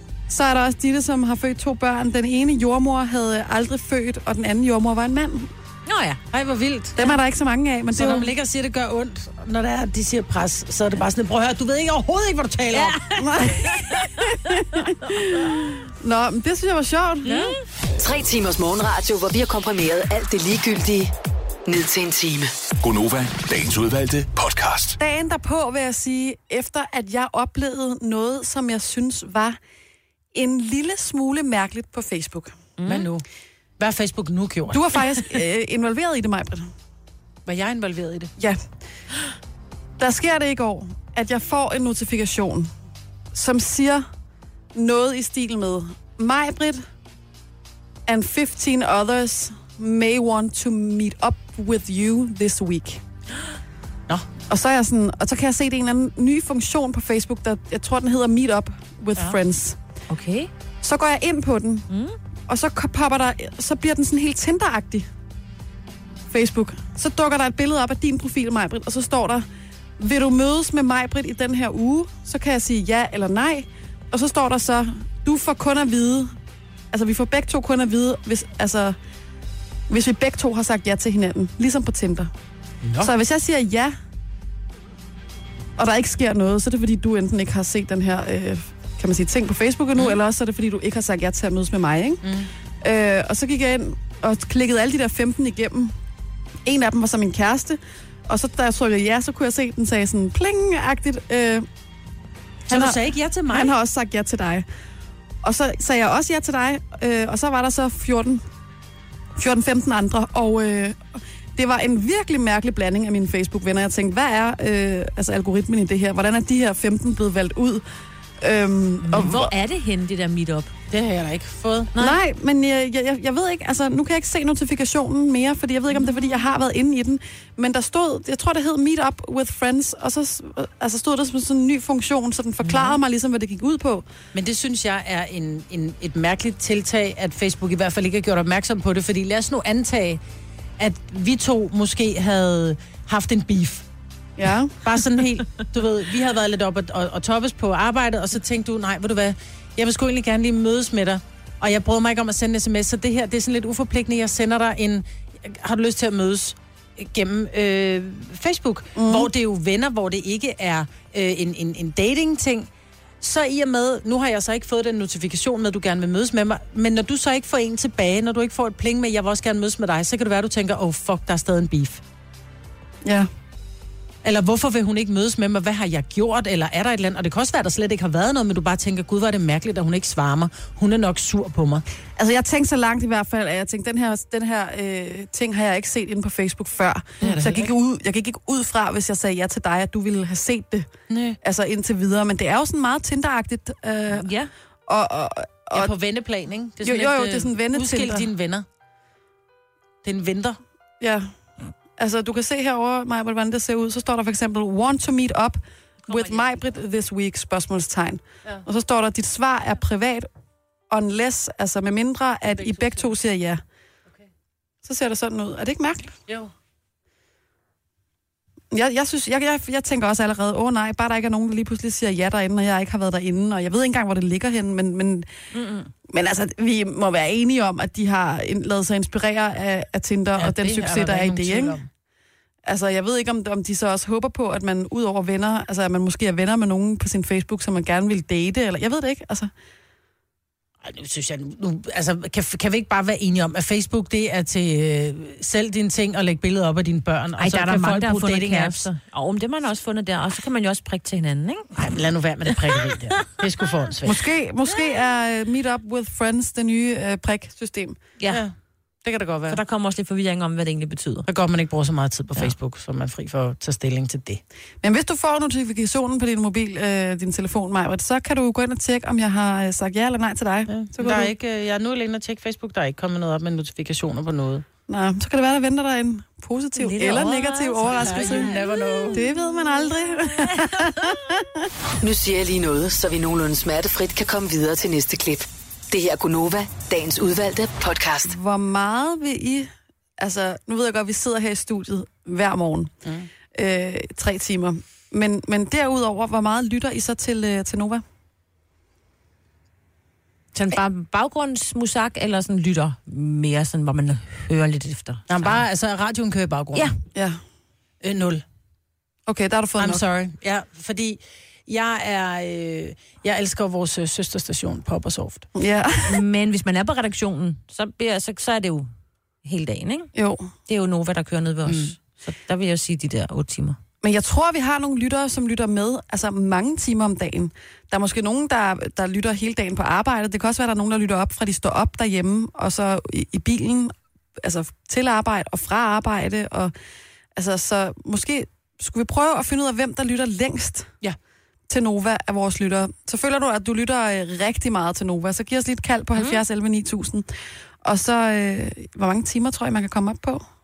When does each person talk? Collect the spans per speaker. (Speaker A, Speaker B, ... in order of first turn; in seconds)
Speaker A: 0.3-5.5, 7.0-8.3, 13.2-17.5, 25.0-29.6, 30.3-32.5, 34.7-36.7, 40.0-42.7, 43.3-44.1, 44.8-46.8, 48.1-53.0, 54.5-59.8, 60.8-61.9, 62.5-65.1, 66.3-69.5, 70.0-76.3, 76.9-79.0, 79.9-82.3, 83.0-84.0, 85.8-92.2, 92.8-95.9, 96.7-101.7, 102.7-103.0, 103.5-104.7, 105.4-108.4, 109.4-111.0, 111.6-117.8, 118.4-119.5, 122.0-134.1, 144.4-144.8, 158.9-159.3, 173.0-173.3, 182.2-190.9, 191.4-194.3, 194.9-195.9, 196.8-198.3, 201.0-201.3, 202.0-210.3, 210.9-213.6, 214.8-216.1, 218.7-225.3, 226.1-231.8, 232.7-239.5, 254.1-258.0, 264.8-271.3, 274.9-278.5, 279.1-281.7, 288.3-292.9, 293.6-298.0, 307.1-307.4, 309.3-310.0, 315.6-316.2, 320.1-320.5, 324.0-336.7, 337.4-340.9, 341.7-347.3, 347.8-350.4
Speaker B: 5.9-6.2, 12.7-14.4, 17.2-17.6, 32.8-33.1, 60.1-60.5, 61.9-62.2, 119.1-120.7, 194.1-194.5, 206.1-206.4, 225.5-225.9, 247.4-251.9, 252.5-252.9, 259.5-261.3, 276.8-279.2, 300.6-305.6, 316.1-318.9, 319.4-320.1, 320.7-323.8
Speaker C: 6.3-7.1, 7.9-13.0, 32.9-33.2, 33.8-35.1, 37.5-38.3, 82.8-83.1, 92.2-92.5, 102.7-103.7, 120.9-122.0, 132.7-133.0, 134.3-140.2, 140.8-143.8, 144.8-162.7, 163.2-172.0, 174.2-181.8, 187.2-187.7, 191.1-191.4, 195.7-198.7, 200.0-200.6, 212.6-213.1, 230.4-231.9, 240.8-248.9, 251.8-254.2, 258.3-259.6, 261.2-264.4, 270.7-274.6, 277.8-279.2, 293.0-293.3, 305.3-306.9, 308.0-308.4, 309.8-315.5, 321.7-321.9
Speaker D: 18.0-21.1, 21.7-22.5, 282.0-288.4
Speaker E: 22.8-25.0